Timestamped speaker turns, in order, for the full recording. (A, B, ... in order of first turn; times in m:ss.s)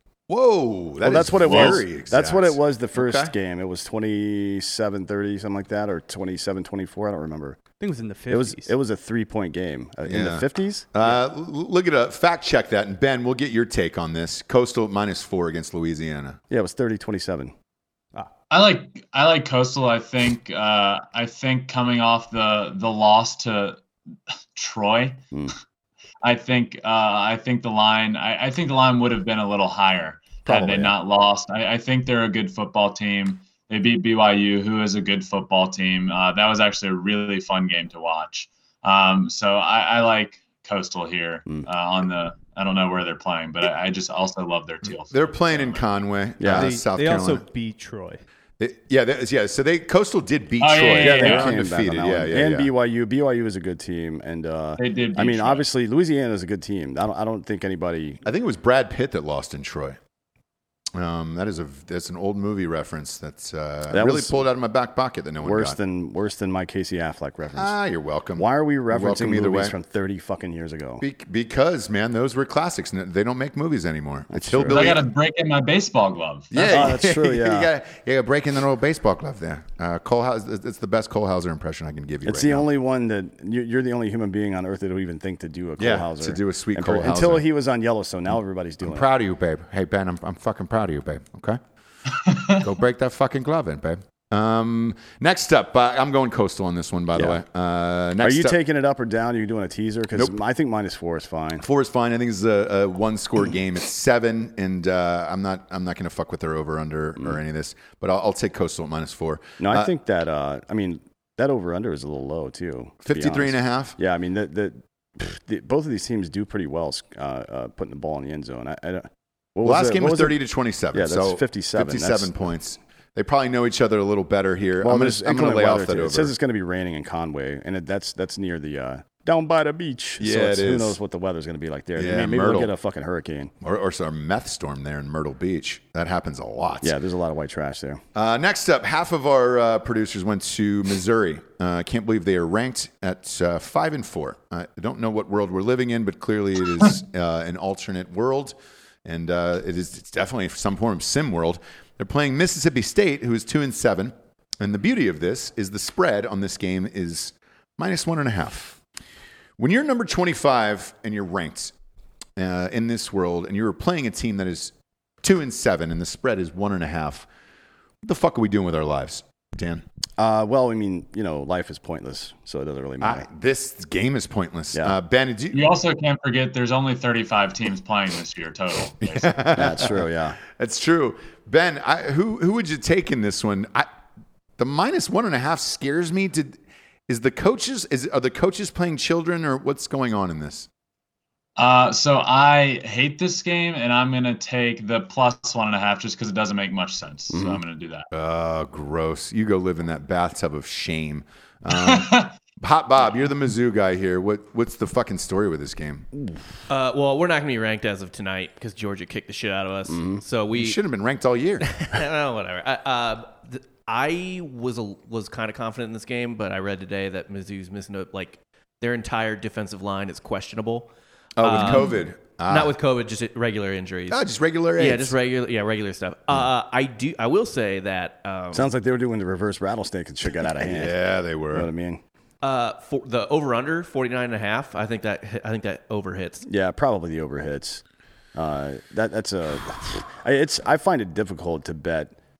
0:00.3-0:03.3 A
0:01.0-0:07.6 B
0:07.8-0:08.7 C
0:08.3-0:10.9 B
0:10.1-0:16.4 A
0:16.5-0:17.5 B
0:18.5-0:23.8 D
0:24.6-0:25.2 D
0:26.2-0:45.9 D
0:30.5-0:30.9 B
0:45.1-0:47.4 A
0:46.4-0:46.7 B
0:46.5-0:48.2 C
0:48.6-0:52.7 A
0:50.6-0:51.5 D
0:51.0-0:58.2 B
0:54.8-0:55.7 D
0:58.2-1:00.0 A
1:01.0-1:05.8 A
1:03.9-1:04.4 B
1:05.4-1:07.8 B
1:07.6-1:09.7 A
1:08.4-1:11.0 B
1:11.0-1:15.0 A
1:14.3-1:14.9 B
1:14.7-1:16.6 D
1:16.5-1:22.7 A
1:16.6-1:17.7 B
1:22.2-1:29.1 B
1:25.8-1:27.4 A
1:28.8-1:31.6 A
1:32.3-1:32.6 D
1:32.6-1:38.6 A
1:37.1-1:37.4 B
1:38.2-1:41.6 B
1:41.6-1:49.9 A
1:49.6-2:00.4 B
1:53.0-1:54.0 A
1:59.6-2:06.3 A
2:00.9-2:02.3 B
2:04.8-2:13.5 B
2:10.2-2:11.0 A
2:12.0-2:12.7 A
2:13.6-2:17.0 A
2:16.8-2:18.0 B
2:18.2-2:38.8 A
2:39.6-2:41.7 A
2:42.4-2:47.3 A
2:48.0-2:49.8 A
2:50.2-2:53.3 B
2:53.0-2:55.6 A
2:55.5-2:59.4 D
2:59.0-3:03.9 A
2:59.5-3:00.4 B
3:04.6-3:10.7 A
3:11.6-3:18.1 D
3:17.3-3:17.6 B
3:18.1-3:26.1 A
3:21.7-3:22.3 D
3:26.7-3:30.8 E
3:29.9-3:30.2 B
3:30.5-3:31.7 A
3:31.6-3:44.2 E
3:41.4-3:42.8 A
3:44.1-3:45.2 A
3:44.8-3:48.7 E
3:48.5-3:51.0 B
3:50.6-3:51.7 A
3:51.5-3:52.0 B
3:52.4-3:56.5 E
3:56.5-3:57.8 B
3:58.4-4:02.2 B